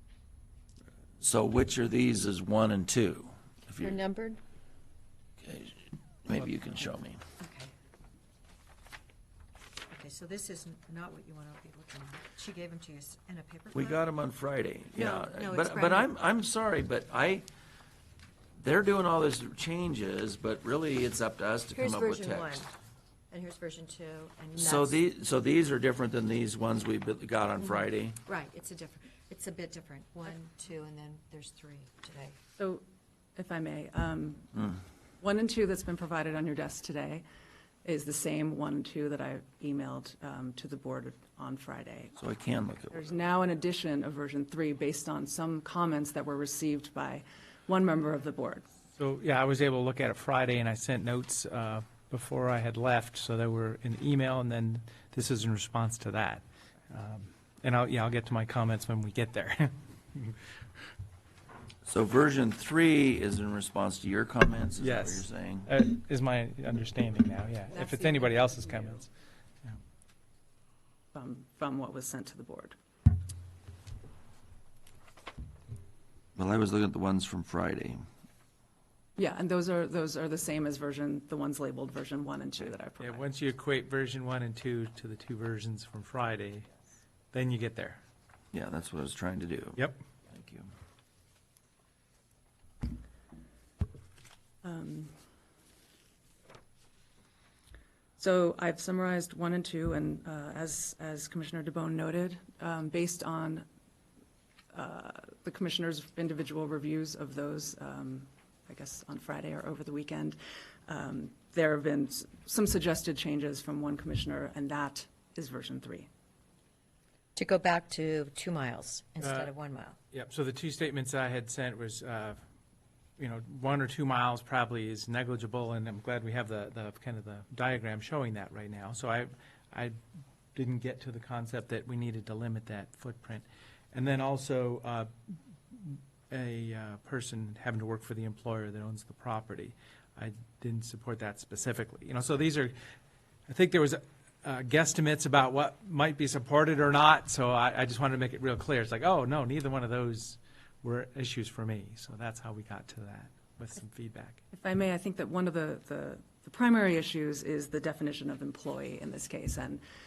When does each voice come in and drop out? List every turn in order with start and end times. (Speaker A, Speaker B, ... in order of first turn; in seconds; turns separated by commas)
Speaker A: 1.2-4.0, Speaker B: 3.8-4.4, Speaker A: 5.4-7.2, Speaker B: 7.4-7.7, Speaker B: 9.9-14.1, Speaker A: 13.7-17.5, Speaker B: 14.9-16.1, Speaker A: 18.6-22.6, Speaker B: 21.7-22.7, Speaker B: 23.3-25.0, Speaker A: 24.6-28.2, Speaker B: 28.2-32.4, Speaker C: 32.6-32.8, Speaker C: 33.4-34.5, Speaker C: 35.2-37.2, Speaker C: 37.8-42.2, Speaker A: 42.2-43.0, Speaker C: 42.9-48.7, Speaker D: 49.0-60.4, Speaker A: 61.9-65.7, Speaker D: 64.8-69.1, Speaker C: 67.7-69.0, Speaker C: 71.1-72.8, Speaker A: 76.4-78.0, Speaker C: 79.2-83.3, Speaker D: 83.0-86.7, Speaker D: 87.3-88.0, Speaker A: 88.5-90.7, Speaker C: 94.6-95.1, Speaker C: 98.2-103.7, Speaker C: 104.7-116.1, Speaker B: 117.4-120.0, Speaker D: 119.2-119.5, Speaker D: 120.1-122.4, Speaker D: 123.2-130.0, Speaker D: 130.5-135.1, Speaker D: 135.7-142.7, Speaker D: 143.5-154.4, Speaker C: 154.5-159.8